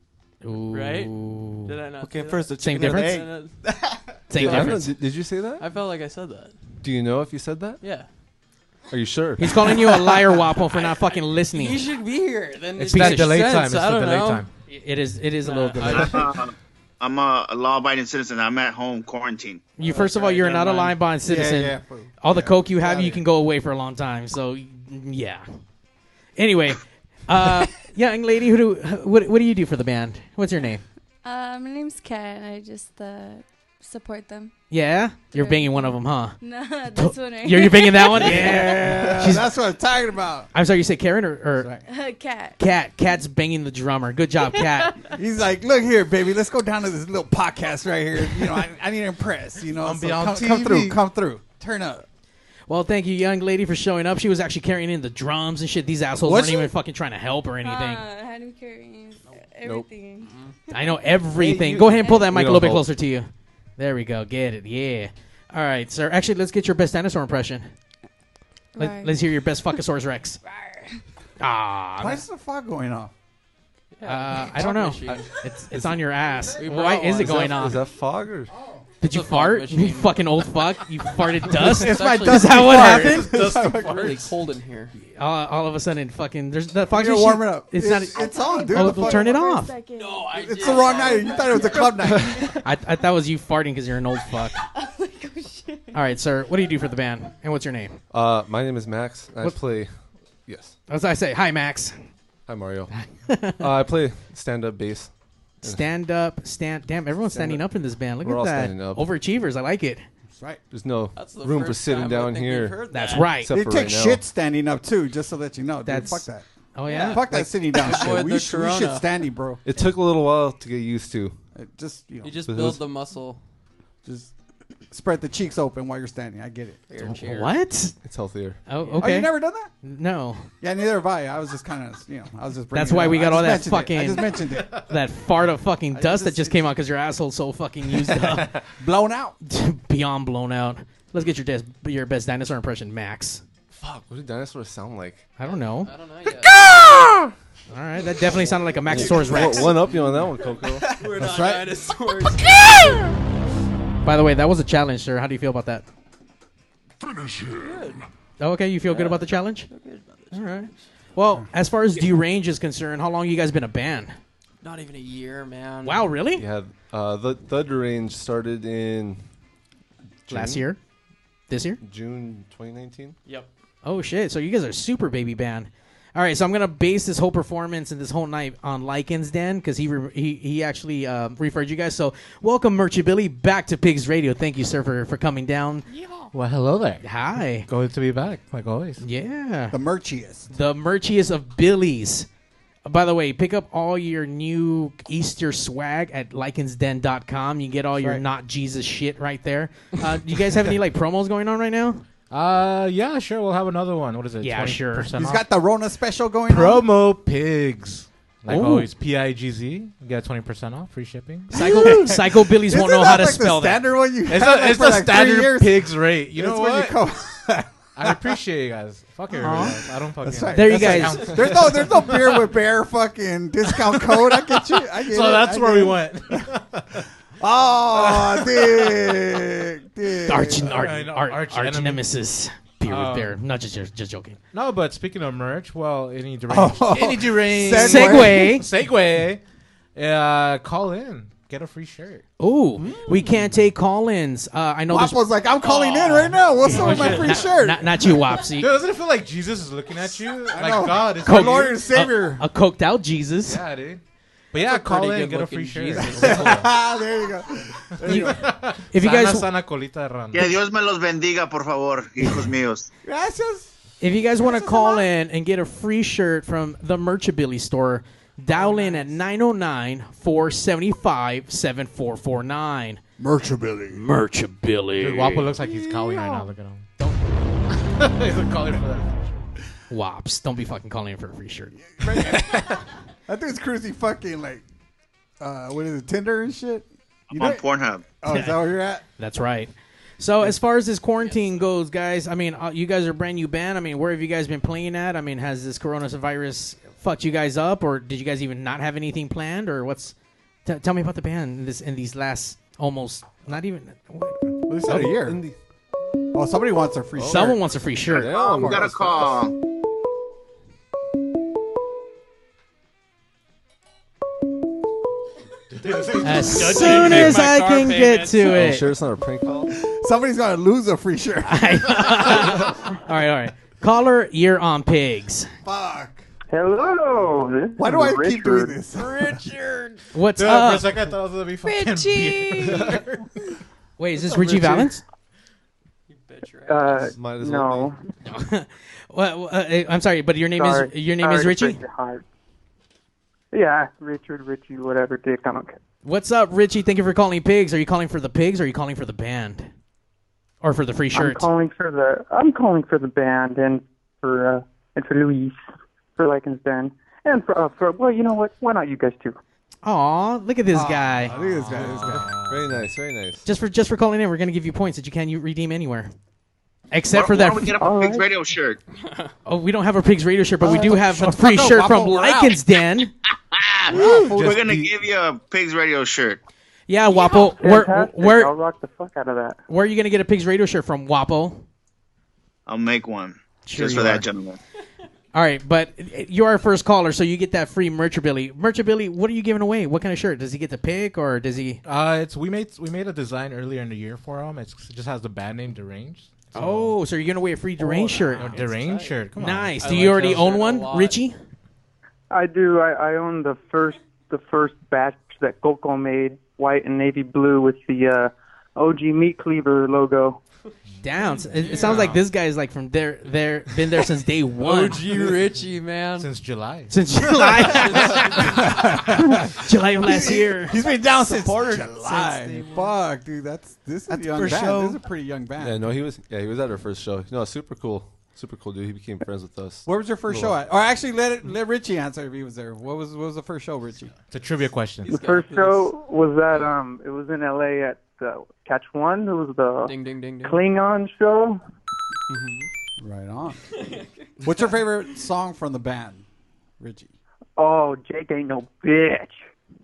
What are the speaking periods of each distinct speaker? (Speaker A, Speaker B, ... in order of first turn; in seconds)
Speaker A: 0.4-1.7, 2.6-3.2, 4.3-4.9, 9.4-11.8, 12.9-13.3, 14.7-16.2, 19.8-25.4, 26.4-30.9, 34.7-36.4, 36.9-39.5, 40.5-41.7, 42.6-45.0, 52.7-58.0, 60.7-67.7, 68.8-70.4, 71.4-72.2, 74.0-77.8, 79.0-83.3, 85.1-89.7, 92.6-94.6, 95.9-98.0, 100.9-101.9, 102.9-103.6, 105.6-110.0, 112.9-113.5, 115.8-117.7, 127.2-128.0, 128.7-130.5, 132.7-138.5, 139.4-143.4, 145.4-145.9, 147.7-149.7, 154.0-155.8, 158.4-159.7, 160.3-164.2, 165.8-166.4, 170.3-170.8, 171.5-171.8, 173.8-185.9, 187.0-187.7, 189.0-189.8, 190.5-192.3, 192.9-202.0, 204.4-205.1, 208.5-208.9, 211.5-213.8, 219.4-219.8, 220.5-221.4, 230.2-234.4, 237.7-238.7, 242.4-245.2, 246.6-248.7, 251.2-253.6, 258.1-259.5, 264.0-273.0, 273.9-275.5, 279.9-281.8, 288.3-304.4, 307.2-308.4, 316.2-318.9, 321.5-325.5, 330.1-331.0, 334.0-335.0, 338.2-341.8, 346.0-349.7, 350.6-351.5, 359.8-361.3, 363.4-366.1, 366.9-367.7, 369.4-373.1, 376.9-378.5, 379.7-381.6, 383.6-384.2, 385.3-391.8, 396.5-398.6, 399.4-401.4, 411.0-415.0, 416.9-418.5, 419.5-420.8
Speaker B: 0.7-1.1, 1.6-3.6, 4.4-4.8, 5.6-6.6, 7.8-8.1, 9.7-14.5, 15.4-16.3, 19.9-20.8, 60.2-60.5, 74.0-75.3, 76.6-77.6, 79.0-80.2, 81.4-84.9, 90.0-92.2, 111.1-113.4, 116.9-119.1, 122.2-123.4, 126.9-127.5, 145.7-146.7, 148.9-152.5, 157.5-158.0, 158.9-160.8, 164.6-166.1, 245.6-246.3, 254.6-256.6, 291.2-291.6, 328.9-330.1, 336.1-337.1, 397.9-399.2, 399.8-401.2, 411.6-412.1, 414.6-416.3, 417.7-418.6, 435.1-435.9, 439.9-440.6
Speaker C: 2.0-3.8, 420.9-423.0, 424.1-425.0, 442.3-442.6
Speaker D: 4.4-5.6, 6.8-7.8, 8.9-9.6, 59.6-59.9, 61.4-62.9, 75.1-76.0, 77.1-78.5, 98.1-99.9, 100.5-100.7, 102.5-102.9, 103.6-105.1, 107.3-107.6, 108.2-109.1, 110.7-112.8, 113.4-114.2, 119.6-121.4, 122.5-122.8, 128.0-128.6, 143.7-145.2, 146.7-147.3, 148.9-150.9, 166.3-169.2, 170.2-170.7, 171.8-173.2, 304.9-305.6, 307.1-308.9, 318.4-319.7, 337.1-337.9, 361.8-363.4, 425.6-430.6
Speaker E: 12.8-14.5, 49.8-51.0, 83.2-84.1, 186.3-189.0, 202.3-205.4, 206.5-212.1, 214.3-217.0, 217.9-222.4, 224.9-227.0, 228.0-228.9, 230.7-232.0, 232.8-233.4, 234.5-239.4, 239.9-242.2, 246.7-247.6, 248.5-251.8, 253.4-254.0, 254.5-256.7, 258.0-260.5, 268.6-269.0, 275.0-277.1, 277.7-279.4, 315.7-318.3, 330.4-333.3, 361.2-362.8, 374.1-374.5, 391.9-397.0, 398.4-400.5, 410.9-412.2, 416.2-417.5, 434.3-435.3
Speaker F: 15.9-19.6, 260.3-262.9, 287.3-288.0, 308.6-309.5, 367.1-368.8, 373.6-376.4, 382.7-384.6
Speaker G: 21.2-23.1, 38.2-40.5, 45.1-52.0, 56.2-56.7, 72.0-73.1, 78.5-78.8, 81.6-84.3, 86.9-89.6, 90.3-92.5, 110.4-110.6, 113.5-116.4, 117.0-119.6, 121.5-122.4, 124.0-124.3, 124.9-126.8, 129.0-129.7, 130.6-134.7, 135.9-136.6, 138.8-139.4, 151.1-151.7, 189.7-190.5, 198.0-198.2, 205.1-206.9, 211.5-218.4, 219.3-226.5, 227.4-230.8, 236.5-238.6, 244.9-247.9, 250.5-252.4, 256.0-258.4, 263.0-263.7, 264.4-265.1, 273.2-274.0, 281.8-284.6, 285.4-287.6, 288.2-289.0, 304.7-305.4, 306.3-307.6, 308.1-309.3, 319.7-322.4, 325.6-326.2, 327.8-329.4, 360.7-362.4, 370.6-372.6, 373.9-374.9, 418.4-425.9, 429.9-434.1, 443.0-443.6, 444.4-446.2, 446.8-447.1
Speaker H: 31.2-34.5, 35.3-38.8, 41.9-42.6, 44.5-45.1, 57.6-60.8, 62.0-62.4, 68.8-69.1, 70.4-71.0, 88.1-92.3, 94.7-96.0, 331.6-332.9
Speaker I: 326.5-328.8, 336.7-338.0, 340.6-342.2, 343.5-345.8, 351.1-355.6, 356.1-359.4, 367.8-368.2, 377.6-379.6, 402.3-410.4, 435.1-441.6, 447.6-449.4